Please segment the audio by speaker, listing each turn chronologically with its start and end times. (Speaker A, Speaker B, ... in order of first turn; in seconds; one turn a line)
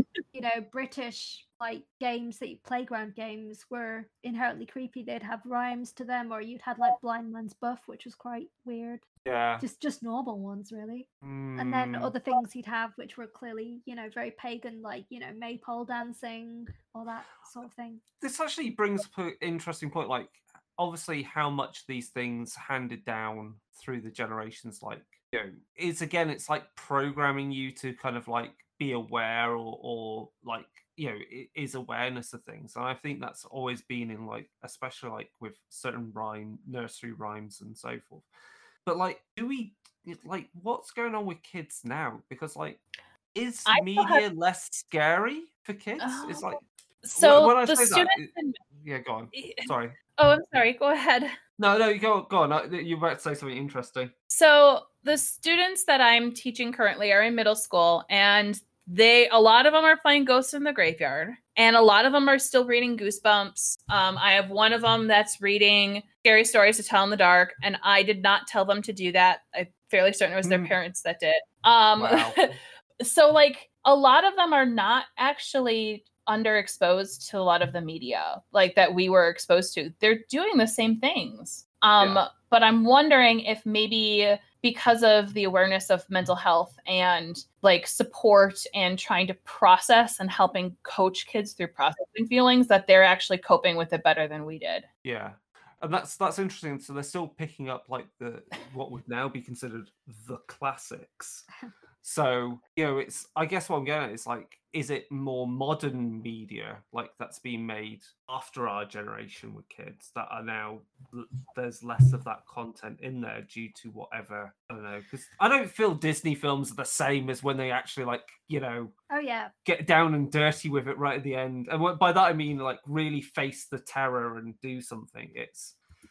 Speaker A: 0.3-9.0
Speaker B: 9.2-9.6
Speaker A: 9.6-18.0
Speaker B: 11.2-12.1
Speaker B: 18.2-38.2
Speaker B: 38.9-42.8
Speaker B: 43.3-46.6
Speaker C: 43.7-44.2
Speaker C: 46.0-46.5
Speaker C: 47.0-48.6
Speaker B: 47.1-49.9
Speaker C: 49.3-51.3
Speaker B: 51.6-54.1
Speaker C: 54.3-72.3
Speaker B: 70.4-70.7
Speaker B: 72.0-72.5
Speaker C: 73.0-94.8
Speaker B: 95.0-101.5
Speaker B: 102.0-118.9
Speaker A: 119.1-119.5
Speaker B: 119.6-125.8